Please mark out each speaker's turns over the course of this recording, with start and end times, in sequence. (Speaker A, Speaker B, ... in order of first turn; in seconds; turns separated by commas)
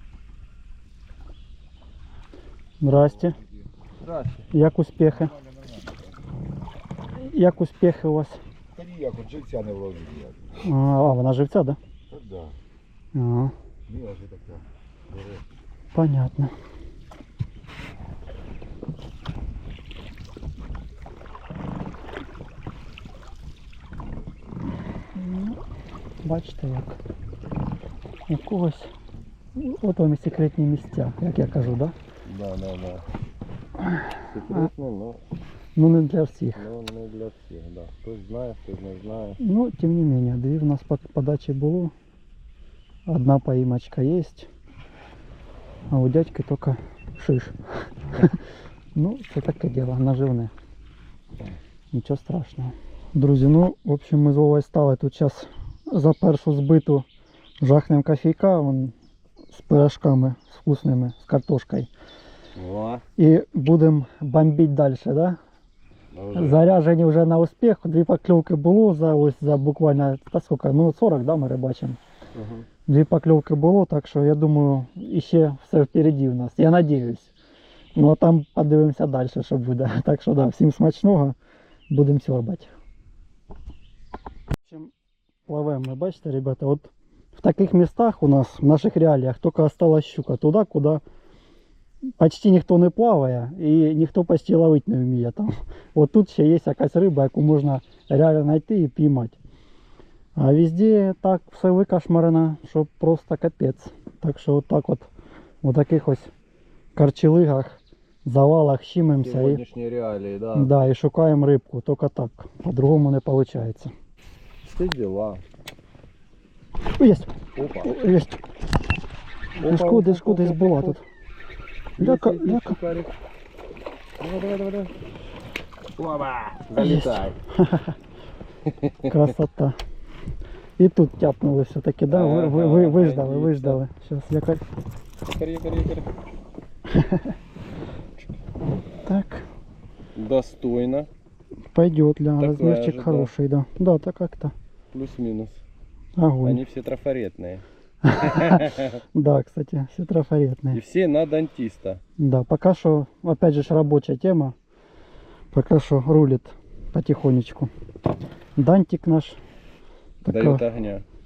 Speaker A: 2.8-3.4, Speaker B: 4.0-4.5, Speaker A: 4.5-5.4, Speaker A: 7.1-8.4, Speaker C: 8.9-10.3, Speaker A: 10.6-11.8, Speaker A: 13.1-13.5, Speaker C: 14.0-14.6, Speaker A: 15.9-16.5, Speaker A: 25.1-25.6, Speaker A: 26.2-27.0, Speaker A: 28.3-28.9, Speaker A: 29.6-31.9, Speaker B: 32.2-33.0, Speaker B: 34.2-35.2, Speaker A: 35.8-36.6, Speaker B: 36.5-39.4, Speaker A: 39.4-41.9, Speaker A: 43.1-44.5, Speaker A: 45.9-48.4, Speaker A: 49.0-50.5, Speaker A: 51.9-57.1, Speaker A: 57.6-58.9, Speaker A: 59.5-61.9, Speaker B: 62.6-63.0, Speaker A: 63.2-65.4, Speaker B: 66.1-66.6, Speaker A: 66.3-72.0, Speaker B: 72.4-72.7, Speaker A: 72.9-77.3, Speaker A: 78.0-81.4, Speaker A: 81.9-82.7, Speaker A: 84.7-84.9, Speaker A: 85.5-91.0, Speaker A: 92.2-99.4, Speaker A: 100.4-105.1, Speaker A: 105.6-106.3, Speaker A: 107.0-109.6, Speaker B: 109.1-110.7, Speaker A: 110.5-113.9, Speaker B: 114.6-115.4, Speaker A: 117.0-117.3, Speaker B: 117.5-118.0, Speaker A: 117.8-118.4, Speaker B: 119.6-121.0, Speaker A: 119.6-121.0, Speaker B: 122.0-123.1, Speaker A: 122.0-122.8, Speaker B: 124.2-124.9, Speaker B: 126.0-127.4, Speaker A: 126.8-128.0, Speaker B: 128.7-129.2, Speaker A: 129.0-129.8, Speaker A: 130.8-134.6, Speaker B: 132.1-133.8, Speaker B: 135.3-136.1, Speaker A: 136.9-137.3, Speaker A: 139.1-139.5, Speaker B: 140.2-141.1, Speaker A: 141.7-144.5, Speaker B: 142.4-143.3, Speaker B: 144.9-145.6, Speaker A: 146.2-146.6, Speaker B: 146.4-149.0, Speaker A: 148.1-150.8, Speaker B: 150.7-152.0, Speaker A: 152.2-154.6, Speaker A: 155.5-157.7, Speaker A: 158.6-159.4, Speaker A: 160.2-160.7, Speaker B: 160.2-161.1